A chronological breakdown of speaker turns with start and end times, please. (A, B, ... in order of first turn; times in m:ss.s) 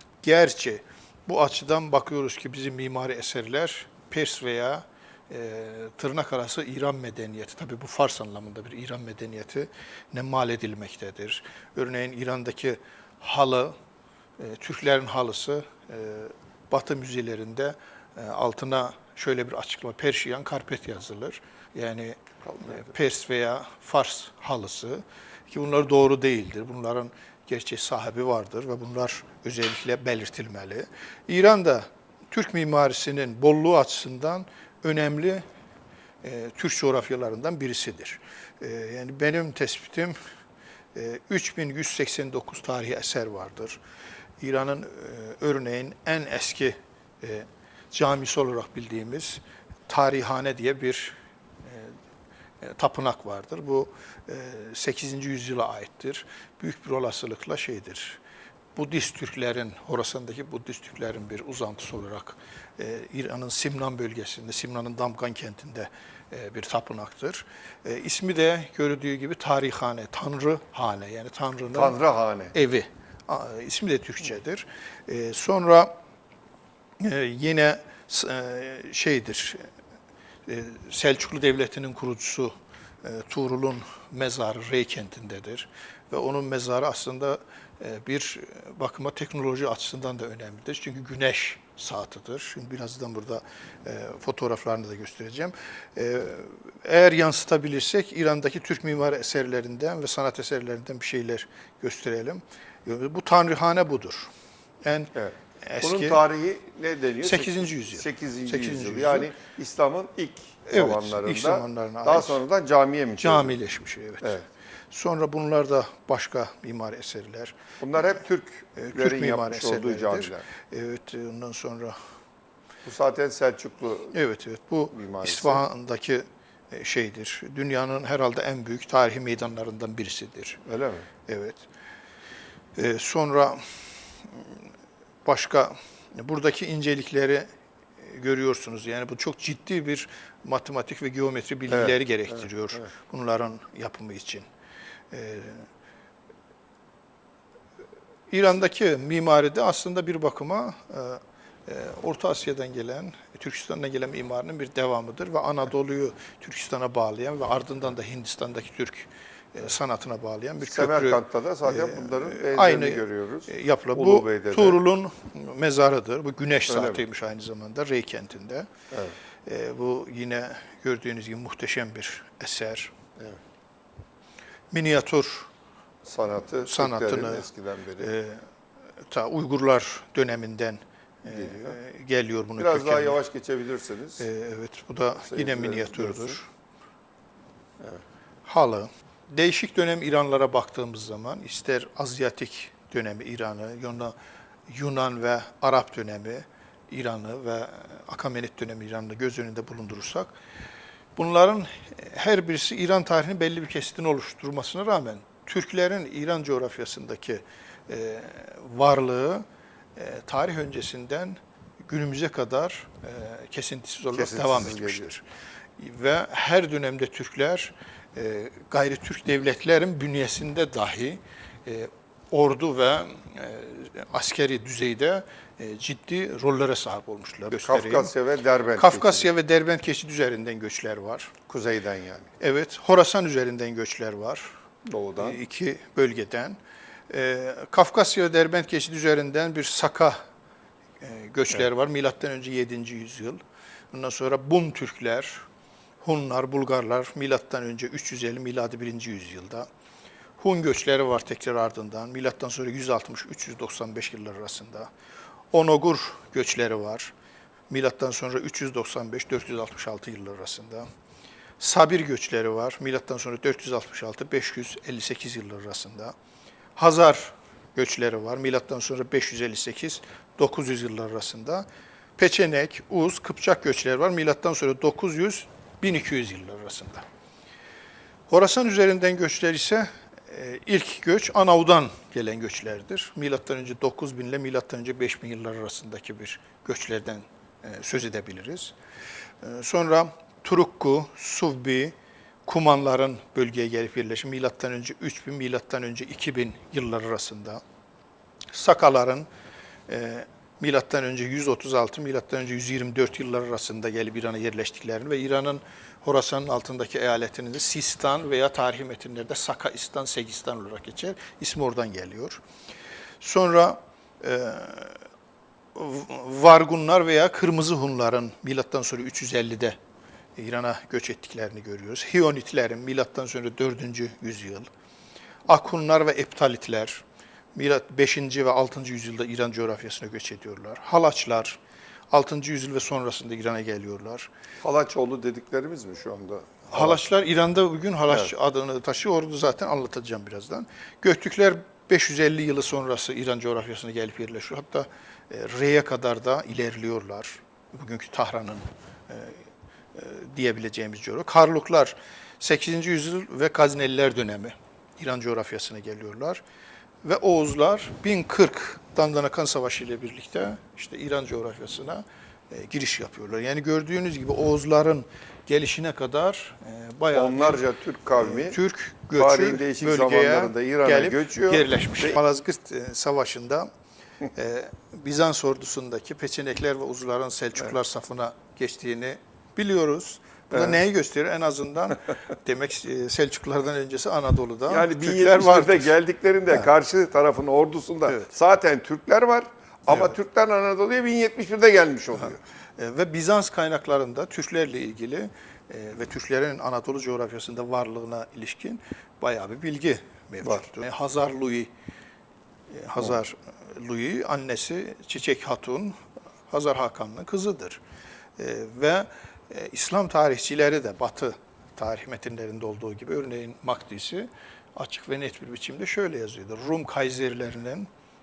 0:00.2-0:13.7 A
0:14.4-0:35.4 A
0:36.2-0:40.2 A
0:40.9-0:43.8 A
0:44.4-0:51.9 A
0:52.6-0:58.2 A
0:58.7-1:12.0 A
1:11.7-1:12.5 B
1:12.5-1:15.9 A
1:17.0-1:19.6 A
1:20.4-1:44.3 A
1:44.8-1:46.2 A
1:45.1-1:53.5 B
1:47.2-1:49.3 A
1:50.7-1:52.4 A
1:53.2-1:54.4 A
1:54.9-1:57.6 A
1:57.8-2:00.4 B
1:58.8-2:02.0 A
2:02.8-2:04.1 B
2:04.1-2:10.6 A
2:04.9-2:05.6 B
2:10.6-2:11.1 B
2:11.3-2:11.6 A
2:12.8-2:13.6 A
2:14.3-2:14.6 A
2:15.2-2:17.5 A
2:18.0-2:24.5 A
2:25.1-2:25.7 A
2:28.3-2:48.7 A
2:40.6-2:44.8 B
2:46.7-2:47.0 B
2:49.4-2:52.9 A
2:54.7-2:55.5 A
2:56.0-2:58.1 B
2:56.6-2:57.4 A
2:58.0-2:58.4 A
2:59.0-3:03.2 A
3:01.3-3:01.7 B
3:02.6-3:04.2 B
3:04.2-3:06.5 A
3:05.2-3:06.4 B
3:08.4-3:14.1 A
3:14.7-3:20.3 A
3:21.2-3:29.4 A
3:30.0-3:35.2 A
3:34.1-3:35.0 B
3:35.8-3:48.1 A
3:47.5-3:49.3 B
3:48.8-3:51.3 A
3:51.5-3:52.3 B
3:52.4-3:54.5 A
3:54.8-3:55.4 B
3:55.2-4:00.2 A
4:01.0-4:03.4 A
4:03.9-4:05.4 A
4:06.0-4:09.7 A
4:10.4-4:14.9 A
4:15.5-4:17.1 A
4:17.7-4:20.8 A
4:21.6-4:26.1 A
4:26.8-4:31.6 A
4:32.2-4:37.0 A
4:38.3-4:48.7 A
4:49.4-4:51.9 A
4:52.4-4:57.6 A
4:58.5-4:59.3 A
4:59.9-5:12.4 A
5:13.2-5:15.0 A
5:15.7-5:19.8 A
5:20.4-5:24.7 A
5:25.5-5:27.0 A
5:27.5-5:31.6 A
5:32.1-5:34.3 A
5:34.6-5:37.0 B
5:36.7-5:56.4 A
5:57.0-6:07.6 A
6:07.1-6:08.6 B
6:08.2-6:13.7 A
6:09.2-6:12.2 B
6:14.3-6:25.9 A
6:24.7-6:32.4 B
6:32.8-6:41.7 A
6:42.7-6:46.0 A
6:46.5-6:47.8 A
6:48.4-6:57.9 A